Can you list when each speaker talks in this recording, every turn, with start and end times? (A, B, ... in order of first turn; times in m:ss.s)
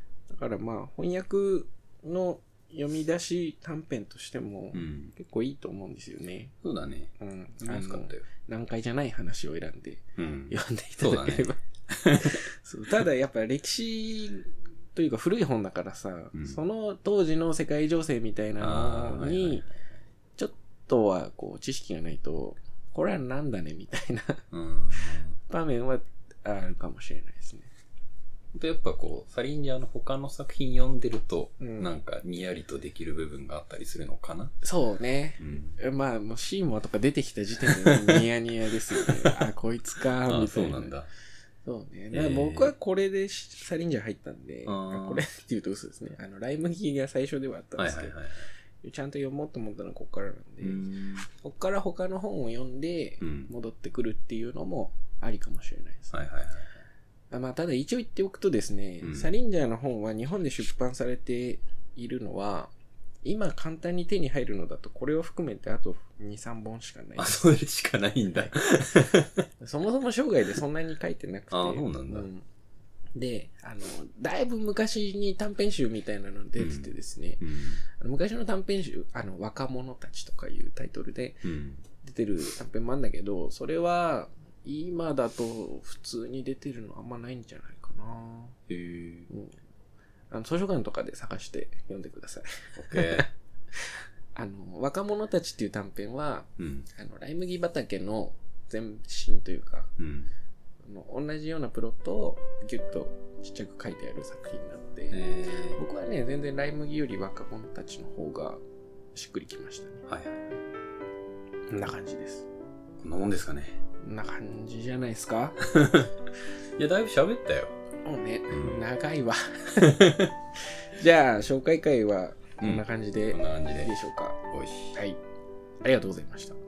0:00.3-0:06.5 A
0:04.7-0:05.1 B
0:06.6-0:08.2 B
0:07.2-0:19.6 A
0:10.2-0:12.4 B
0:16.3-0:16.6 B
0:18.6-0:19.8 B
0:20.4-0:24.4 A
0:24.5-0:25.4 B
0:25.4-0:27.7 A
0:28.5-0:34.5 B
0:31.6-0:31.9 A
0:34.6-0:40.9 A
0:35.4-0:35.8 B
0:37.6-0:38.2 B
0:39.0-0:39.4 B
0:40.0-0:41.1 B
0:41.6-0:48.2 A
0:42.1-0:42.7 B
0:44.6-0:45.2 B
0:47.8-0:48.5 B
0:48.8-0:56.1 A
0:50.6-0:51.3 B
0:53.2-0:53.5 B
0:56.1-0:56.8 B
0:57.3-1:02.7 A
0:59.0-0:59.3 B
1:03.2-1:07.5 A
1:07.2-1:09.4 B
1:09.6-1:12.4 A
1:11.5-1:12.3 B
1:13.2-1:21.5 A
1:16.6-1:17.8 B
1:21.4-1:21.8 B
1:22.0-1:28.6 A
1:28.7-1:29.3 B
1:29.3-1:29.6 A
1:30.3-1:39.9 A
1:32.8-1:33.3 B
1:36.6-1:36.9 B
1:40.0-1:40.3 B
1:40.8-1:48.6 A
1:45.1-1:45.8 B
1:49.1-1:50.0 A
1:50.0-1:50.5 B
1:51.7-1:52.5 A
1:53.0-1:53.8 B
1:54.0-1:55.6 A
1:55.6-1:56.1 B
1:56.8-1:57.7 B
1:58.0-2:04.4 A
1:58.5-1:58.8 B
2:02.6-2:05.0 B
2:05.8-2:06.6 A